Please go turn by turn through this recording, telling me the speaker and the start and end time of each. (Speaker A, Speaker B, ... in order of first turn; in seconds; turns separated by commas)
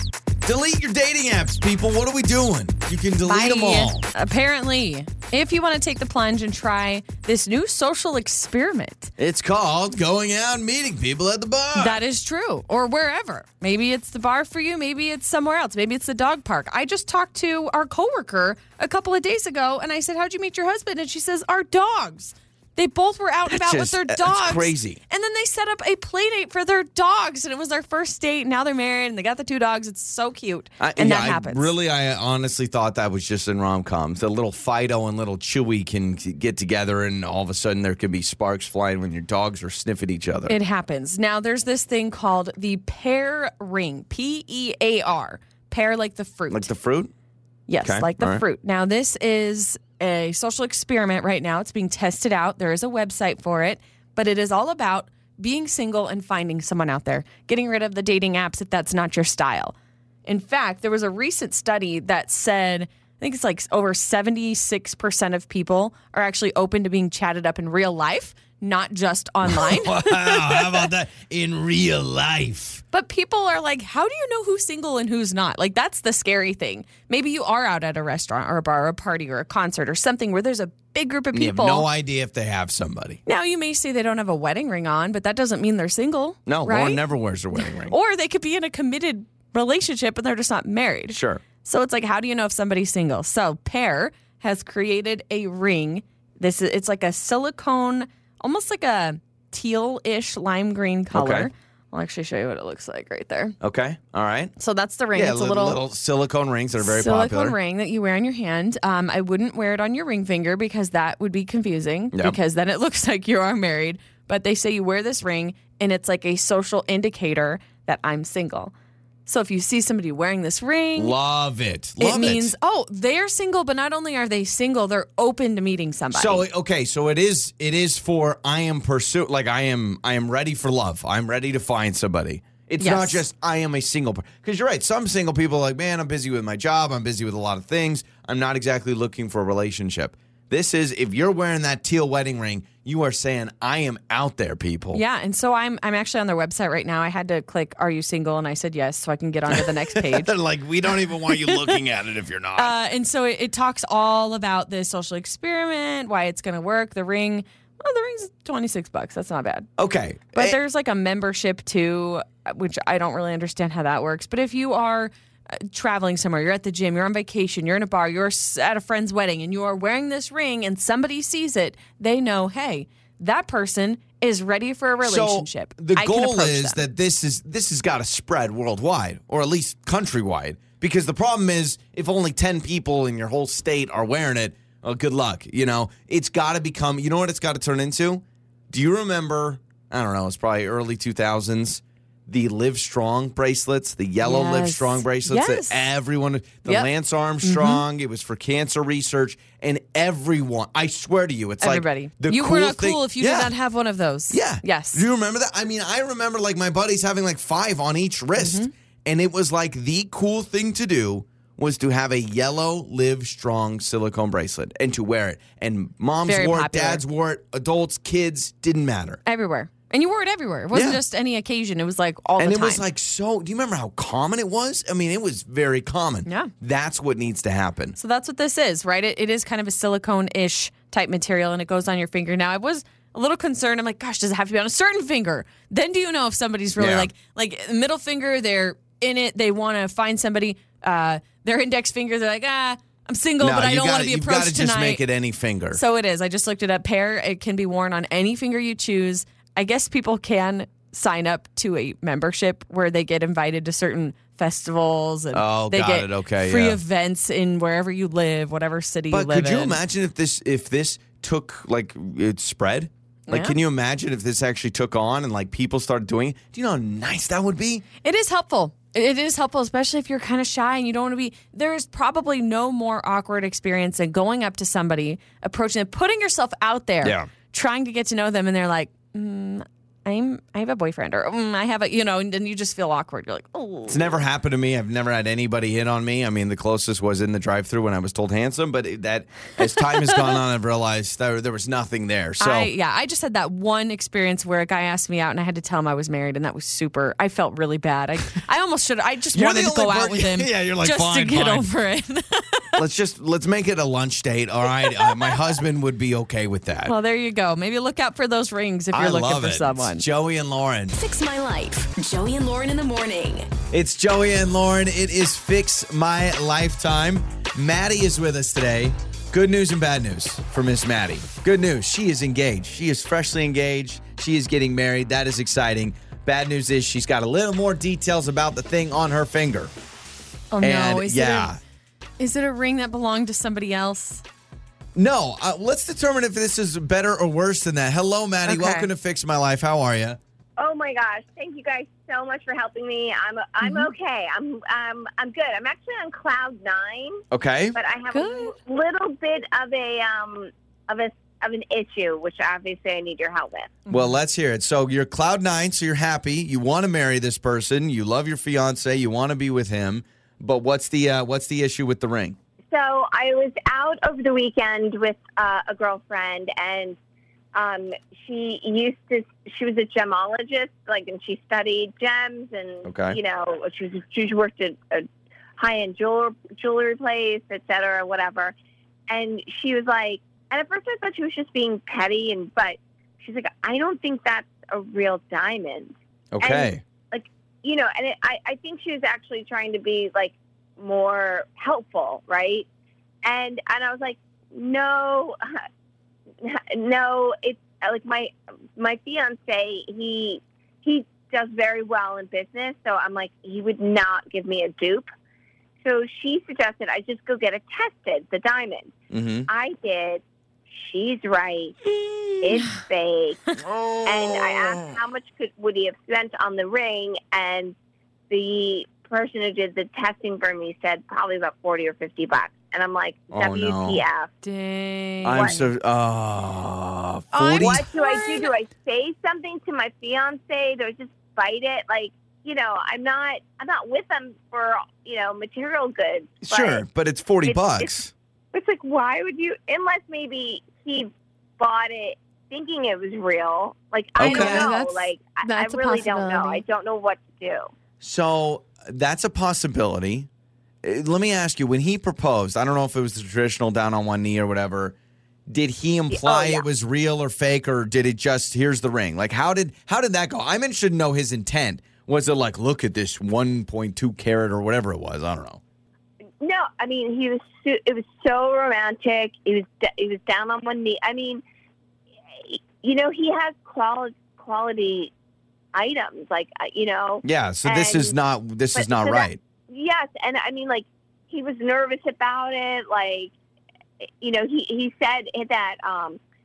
Speaker A: 0.4-4.1, Speaker B: 3.2-9.1, Speaker A: 9.2-12.0, Speaker B: 11.8-31.7, Speaker A: 23.5-25.0, Speaker A: 30.8-40.5, Speaker B: 40.5-46.7, Speaker A: 46.5-47.1, Speaker B: 47.7-59.7, Speaker A: 47.8-48.4, Speaker B: 60.2-70.9, Speaker A: 69.4-72.8, Speaker B: 72.9-81.9, Speaker A: 81.3-83.2, Speaker B: 83.2-87.0, Speaker A: 86.5-87.9, Speaker B: 87.5-103.5, Speaker A: 91.1-91.4, Speaker A: 101.1-101.5, Speaker A: 103.6-104.5, Speaker B: 104.6-105.8, Speaker A: 105.1-107.5, Speaker B: 106.8-118.7, Speaker A: 112.1-112.4, Speaker B: 119.2-121.1, Speaker A: 121.0-122.5, Speaker B: 122.0-126.5, Speaker A: 126.1-145.0, Speaker B: 132.8-133.2, Speaker B: 144.9-150.3, Speaker A: 149.5-152.7, Speaker B: 151.3-151.7, Speaker B: 152.6-159.7, Speaker A: 159.8-160.6, Speaker B: 160.3-176.8, Speaker A: 175.0-203.5, Speaker B: 194.2-195.8, Speaker B: 197.4-197.8, Speaker B: 201.6-205.0, Speaker A: 204.3-219.2, Speaker B: 208.4-208.7, Speaker B: 216.2-217.0, Speaker B: 219.2-222.8, Speaker A: 220.7-221.0, Speaker A: 222.4-228.0, Speaker B: 226.2-226.5, Speaker B: 228.0-245.0, Speaker A: 236.8-237.1, Speaker A: 243.4-245.8, Speaker B: 245.7-259.8, Speaker A: 255.3-256.8, Speaker A: 259.1-267.8, Speaker B: 263.3-263.6, Speaker B: 268.0-284.2, Speaker A: 277.0-277.3, Speaker A: 283.9-292.7, Speaker B: 292.4-302.8, Speaker A: 299.3-301.7, Speaker A: 302.8-306.9, Speaker B: 306.9-310.0, Speaker A: 308.9-310.9, Speaker C: 310.9-313.5, Speaker A: 313.7-329.7, Speaker B: 330.5-331.5, Speaker A: 330.6-331.6, Speaker B: 332.2-334.2, Speaker A: 334.9-340.2, Speaker B: 338.4-338.9, Speaker D: 340.6-347.2, Speaker B: 343.6-343.9, Speaker A: 347.3-347.8, Speaker D: 347.7-353.8, Speaker B: 348.1-348.5, Speaker B: 353.9-354.2, Speaker A: 353.9-362.4, Speaker D: 362.7-367.0, Speaker D: 367.5-375.1, Speaker A: 372.9-373.2, Speaker D: 375.6-378.5, Speaker D: 379.1-392.7, Speaker A: 386.3-386.8, Speaker D: 393.2-395.6, Speaker D: 396.4-405.1, Speaker D: 405.8-408.9, Speaker A: 409.1-409.5, Speaker D: 409.5-411.7, Speaker D: 412.4-413.4, Speaker A: 413.6-414.9, Speaker D: 414.0-417.7, Speaker D: 418.3-424.3, Speaker A: 423.3-424.0, Speaker B: 424.4-425.6, Speaker A: 425.2-427.9, Speaker B: 427.3-428.5, Speaker D: 427.6-436.8, Speaker A: 436.4-438.1, Speaker D: 437.4-437.9, Speaker D: 438.5-447.7, Speaker A: 444.2-444.7, Speaker B: 444.2-446.6, Speaker A: 448.0-450.3, Speaker A: 450.8-455.0, Speaker A: 455.5-465.6, Speaker D: 456.1-456.6, Speaker D: 466.4-471.4, Speaker D: 472.4-475.1, Speaker D: 475.7-478.1, Speaker A: 477.2-479.4, Speaker D: 478.7-483.3, Speaker D: 484.2-486.2